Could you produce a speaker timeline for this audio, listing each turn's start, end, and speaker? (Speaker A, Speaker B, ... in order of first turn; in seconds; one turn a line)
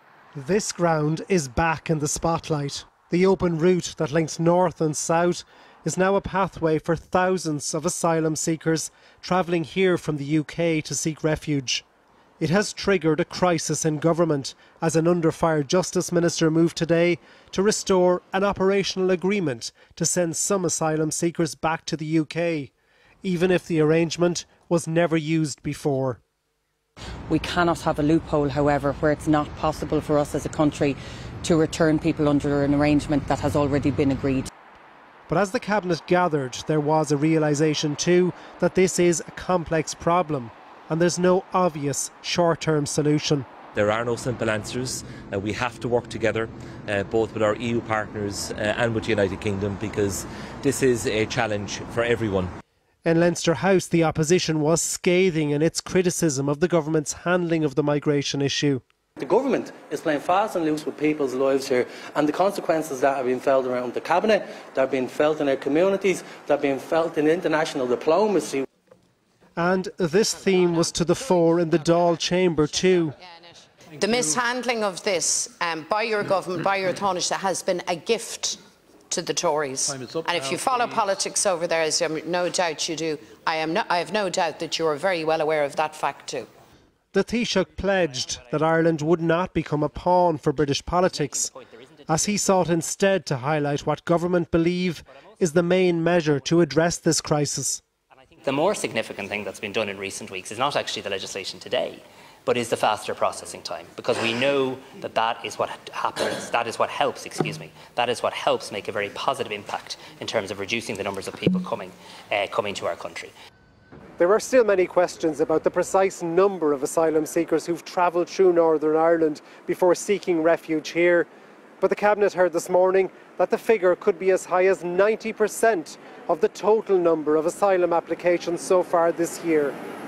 Speaker A: 0.3-11.8
Speaker A: 12.4-22.7
Speaker A: 23.2-26.2
Speaker B: 27.3-34.5
Speaker A: 35.3-43.5
Speaker C: 43.7-52.5
Speaker A: 53.0-58.8
Speaker D: 59.2-68.6
Speaker A: 69.6-73.2
Speaker E: 71.4-72.1
Speaker E: 73.0-86.5
Speaker A: 87.1-91.5
Speaker F: 91.1-92.5
Speaker A: 92.1-97.8
Speaker F: 98.4-113.3
Speaker A: 114.2-121.3
Speaker A: 121.8-129.7